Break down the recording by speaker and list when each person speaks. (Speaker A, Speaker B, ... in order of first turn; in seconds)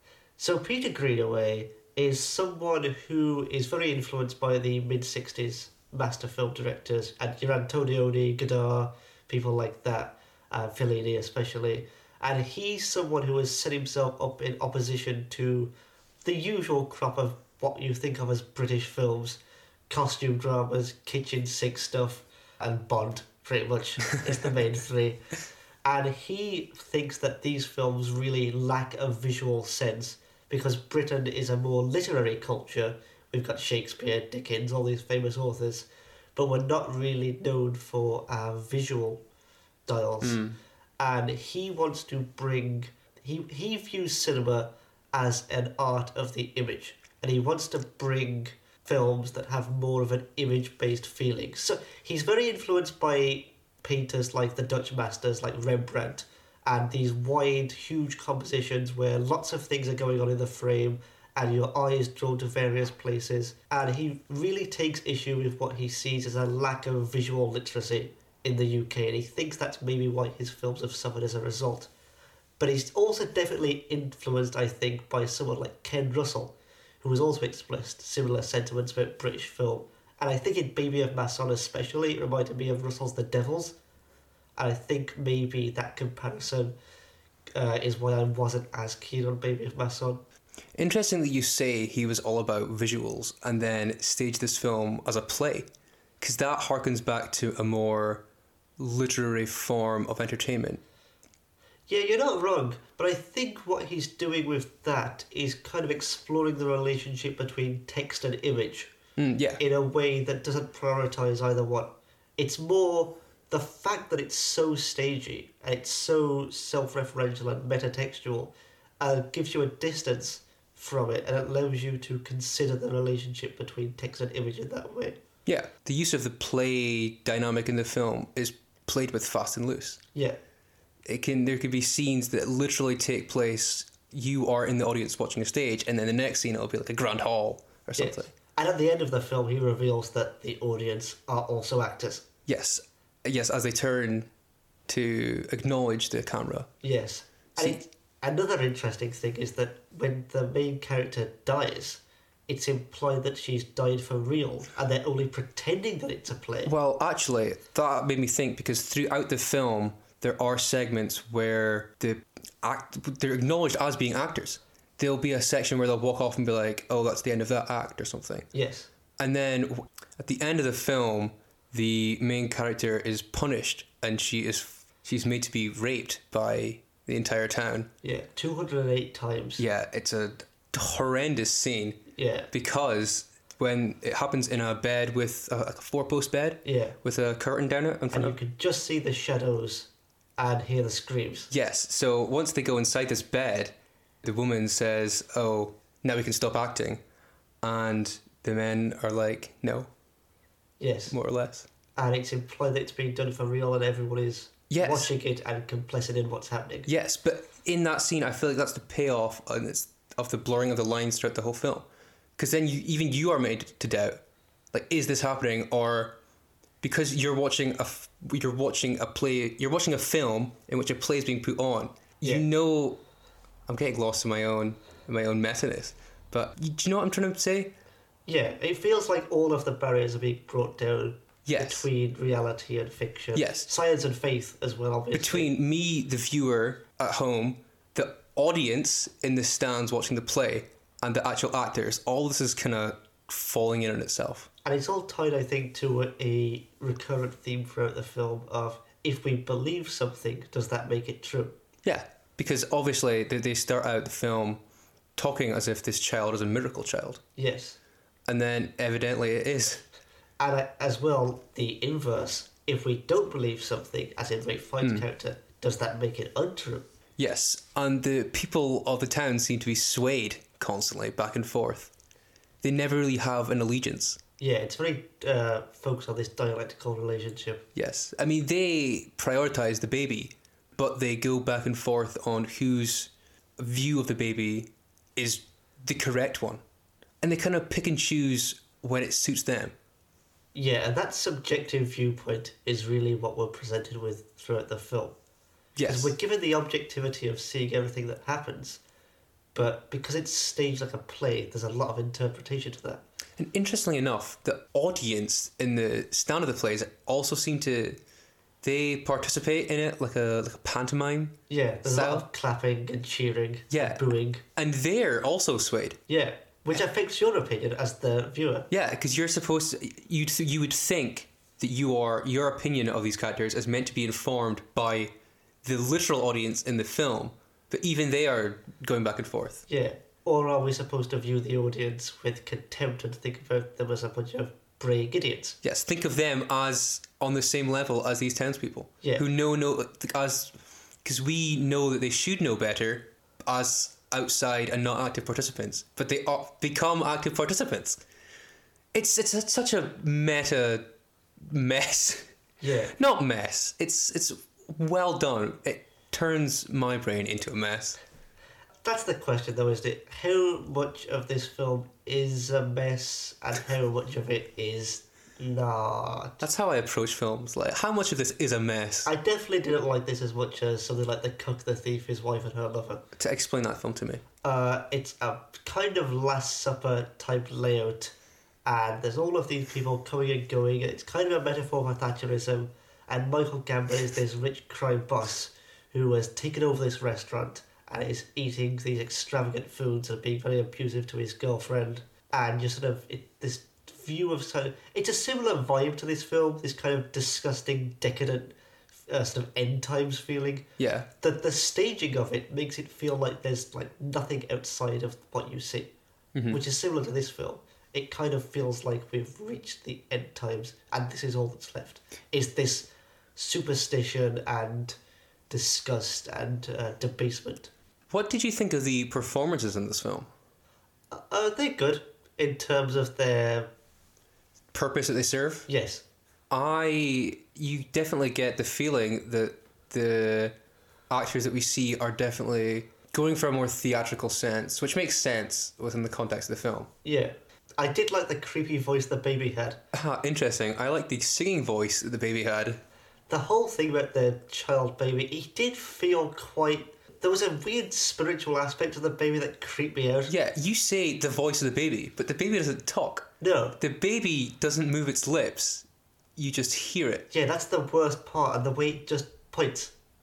Speaker A: 0.4-15.7, 16.2-25.2, 25.8-39.2, 39.9-40.4, 41.0-71.9, 72.6-83.8, 84.5-86.8, 87.5-90.2, 101.9-108.9, 109.6-125.2, 138.0-142.2, 146.8-156.7, 168.5-168.9, 178.0-179.6, 182.1-182.5, 186.6-187.0, 188.1-191.5, 200.8-201.1, 201.9-206.9, 222.2-222.5, 228.2-235.5, 244.6-251.6, 257.4-257.8, 260.4-266.9, 274.4-277.6, 290.5-295.2, 295.9-298.8, 299.5-303.0, 311.5-314.4, 316.1-318.7, 329.7-335.6, 352.6-352.9, 358.8-366.4, 369.0-373.0, 374.4-378.1, 378.6-398.5, 399.1-400.7, 401.2-405.9, 406.5-415.0, 415.5-417.7, 421.1-423.7, 425.7-426.0, 437.0-439.8, 443.3-450.3, 453.4-453.8, 457.3-459.9
Speaker B: 40.2-40.6, 90.8-95.7, 96.2-98.2, 98.8-100.8, 109.2-109.6, 125.5-130.0, 131.1-138.3, 142.5-144.3, 144.9-146.7, 156.6-168.5, 169.2-177.9, 179.6-188.4, 191.5-197.0, 197.6-199.9, 201.1-201.7, 204.7-205.1, 206.8-214.2, 214.7-216.2, 216.8-223.0, 223.7-227.7, 231.4-231.9, 233.3-233.7, 235.1-244.5, 251.8-254.6, 255.2-257.2, 258.3-259.8, 267.2-271.9, 272.6-274.2, 277.7-286.6, 287.2-289.7, 295.8-296.1, 303.4-308.0, 308.6-312.2, 313.7-316.0, 318.7-325.1, 325.6-329.6, 335.6-340.5, 341.0-348.0, 348.9-350.9, 351.4-352.3, 352.9-358.0, 366.4-369.1, 373.2-374.2, 400.8-401.1, 406.3-406.6, 418.1-420.3, 424.7-425.7, 426.5-430.5, 431.1-436.9, 439.9-442.8, 450.3-457.3